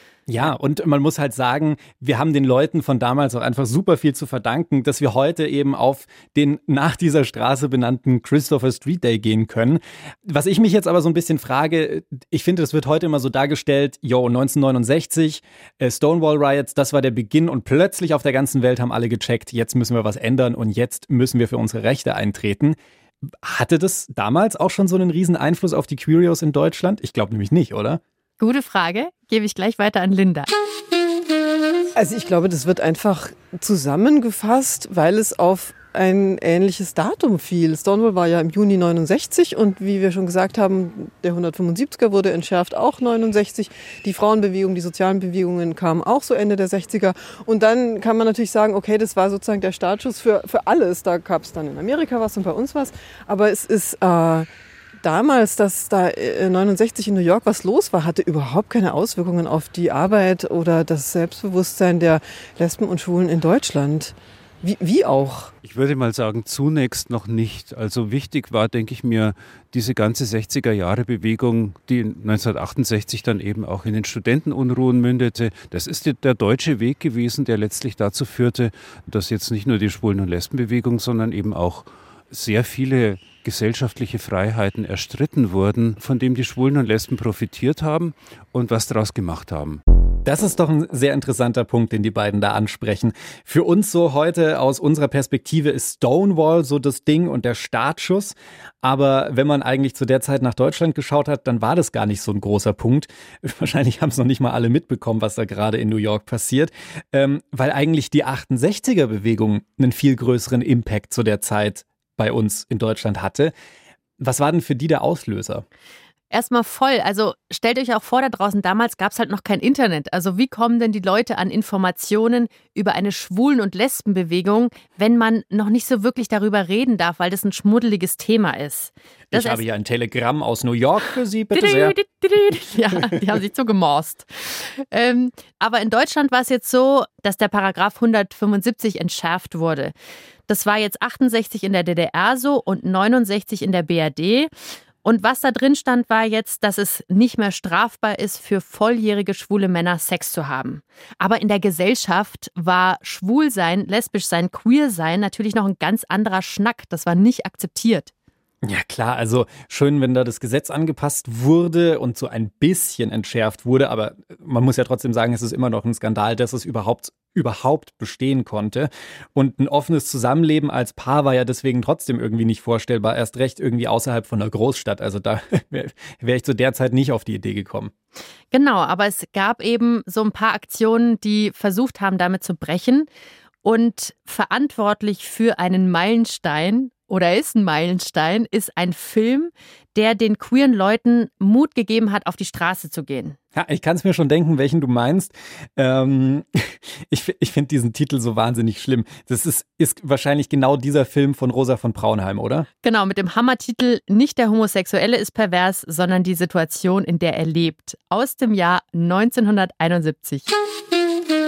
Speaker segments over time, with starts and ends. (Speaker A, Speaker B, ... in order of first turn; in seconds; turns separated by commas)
Speaker A: 0.3-22.8, Speaker A: 23.3-28.0, Speaker B: 28.4-30.5, Speaker C: 31.9-54.5, Speaker C: 55.0-65.5, Speaker D: 65.6-89.8, Speaker A: 90.2-113.5, Speaker A: 114.2-115.6, Speaker B: 116.3-129.6, Speaker A: 129.3-131.9, Speaker B: 131.5-139.9, Speaker B: 140.5-144.5, Speaker B: 145.0-158.1, Speaker A: 158.6-177.9, Speaker B: 178.5-183.1, Speaker B: 183.6-193.4, Speaker A: 193.5-202.7, Speaker B: 202.8-210.5